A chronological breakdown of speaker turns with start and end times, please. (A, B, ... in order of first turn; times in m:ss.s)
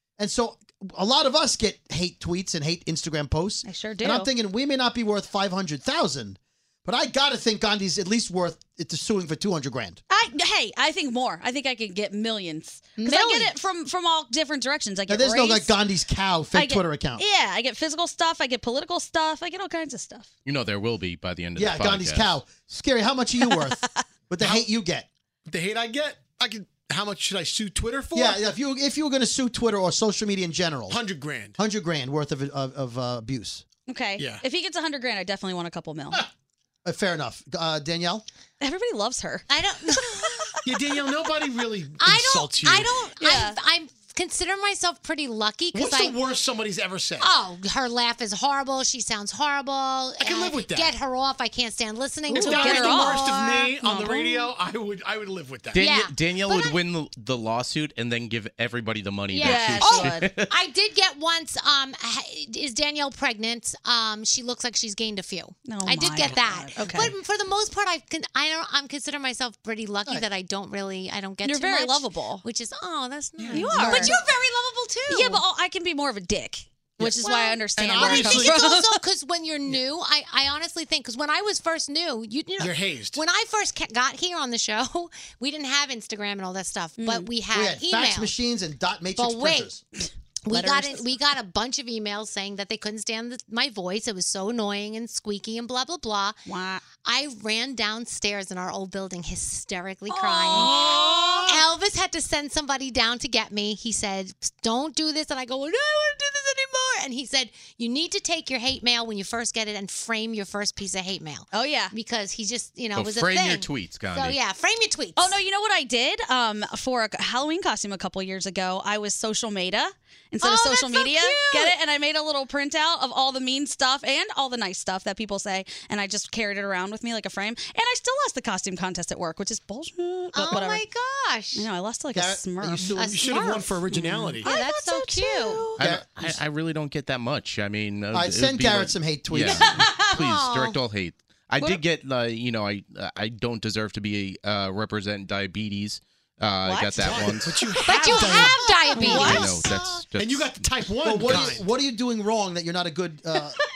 0:00.2-0:10.0 A
0:03.6-0:04.3 B
0:10.1-0:15.8 B
0:13.0-0:13.5 C
0:15.1-0:17.2 A
0:16.5-0:20.3 B
0:20.4-0:22.4 D
0:21.6-0:25.1 A
0:24.4-0:24.7 E
0:25.4-0:28.4 E
0:28.1-0:31.0 A
0:30.9-0:31.6 E
0:31.6-0:33.6 A
0:33.9-0:36.2 B
0:34.2-0:34.4 E
0:36.8-0:38.2 A
0:38.6-0:39.6 B
0:39.5-0:40.4 C
0:40.6-0:43.0 E
0:42.0-0:46.2 C
0:43.2-0:43.6 B
0:45.7-0:47.4 E
0:47.2-0:53.3 C
0:50.2-0:51.0 E
0:52.3-0:54.5 B
0:52.3-0:55.9 E
0:55.7-0:56.8 C
0:55.7-1:00.5 D
0:59.3-1:15.4 C
0:59.4-1:00.3 B
1:05.6-1:07.1 B
1:11.4-1:12.4 B
1:13.4-1:14.1 E
1:13.5-1:14.2 B
1:15.1-1:19.0 B
1:17.1-1:28.3 C
1:17.9-1:18.5 E
1:22.6-1:23.2 E
1:27.0-1:27.3 B
1:27.5-1:29.8 A
1:29.1-1:29.7 C
1:30.4-1:36.4 C
1:30.5-1:31.0 B
1:36.4-1:36.8 B
1:37.0-1:55.4 C
1:40.1-1:41.6 B
1:51.5-1:51.9 B
1:52.9-1:54.4 D
1:55.2-2:10.8 B
2:00.4-2:01.8 C
2:10.3-2:11.7 C
2:11.5-2:13.0 B
2:12.1-2:12.9 A
2:12.6-2:14.5 E
2:12.9-2:13.8 C
2:13.9-2:15.8 B
2:14.4-2:15.7 C
2:15.8-2:27.6 D
2:15.8-2:16.4 A
2:18.1-2:19.8 A
2:19.5-2:20.1 B
2:19.8-2:20.8 C
2:26.6-2:27.2 B
2:27.0-2:29.5 E
2:27.8-2:29.7 C
2:28.3-2:29.8 B
2:29.1-2:30.6 D
2:30.2-2:31.7 E
2:31.0-2:33.6 A
2:31.2-2:31.5 D